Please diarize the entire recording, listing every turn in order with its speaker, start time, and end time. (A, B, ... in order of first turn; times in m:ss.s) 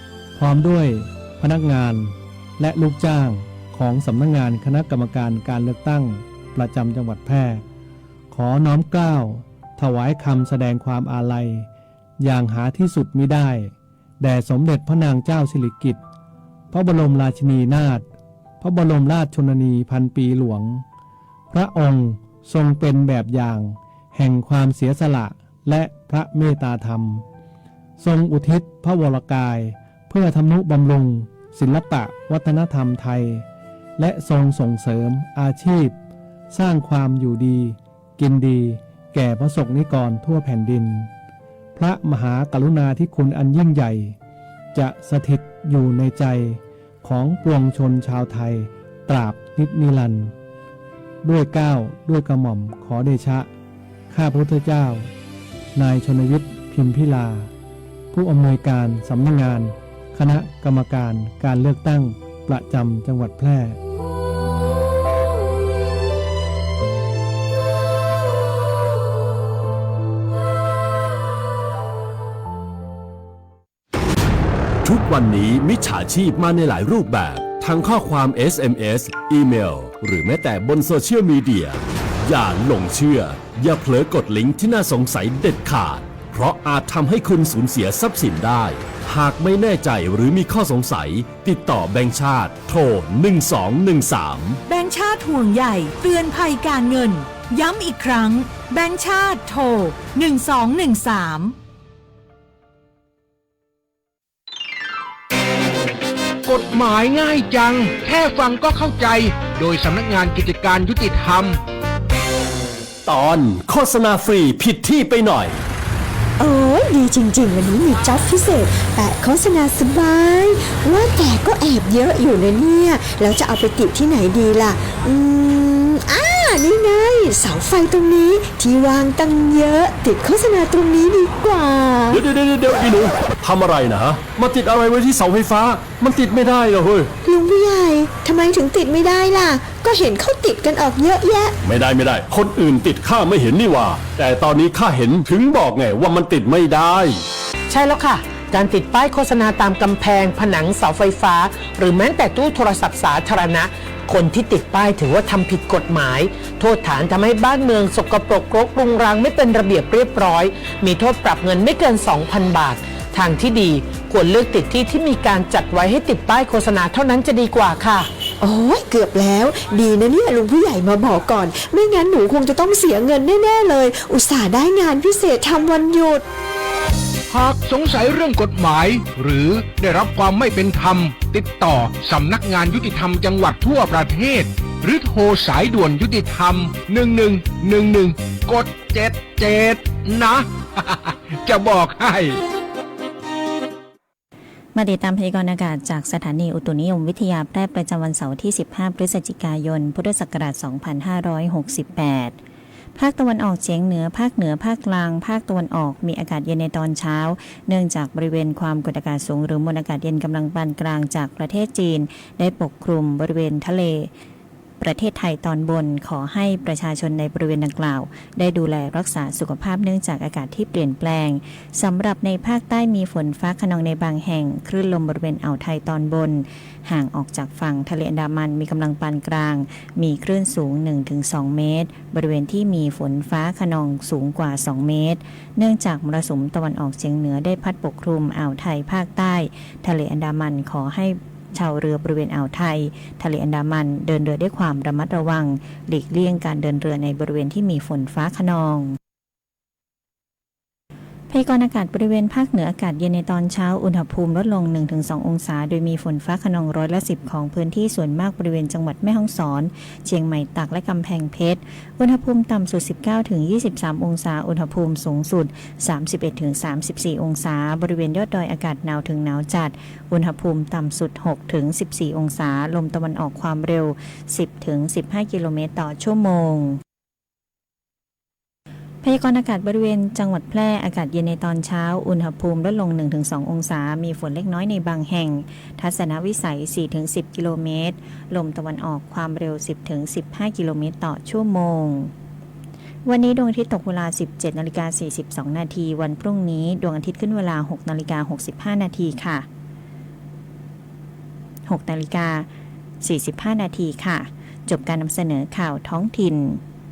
0:00.4-0:07.6 A
0:08.3-0:11.7 A
0:12.2-0:16.0 A
0:16.7-0:18.1 A
0:18.6-0:20.8 A
0:21.5-0:27.2 A
0:28.0-0:33.4 A
0:34.0-0:36.0 A
0:36.5-0:41.1 A
0:41.8-0:44.2 A
0:44.7-0:50.3 A
0:51.2-0:53.5 A
0:54.1-0:55.1 A
0:55.8-0:57.5 A
0:58.1-1:03.8 A
1:14.8-1:34.6 B
1:34.7-1:41.6 C
1:46.4-1:51.6 D
1:53.0-1:55.6 B
1:56.4-2:12.2 E
2:12.1-2:17.1 B
2:17.2-2:21.6 E
2:21.6-2:27.2 B
2:27.7-2:48.1 F
2:48.4-2:56.2 E
2:57.3-3:12.4 D
3:14.8-3:22.4 G
3:23.0-3:34.1 G
3:34.8-4:09.0 G
4:11.3-4:36.8 G
4:39.0-4:52.1 G
4:53.1-4:59.4 G
5:01.7-5:02.5 G
5:03.0-5:06.6 G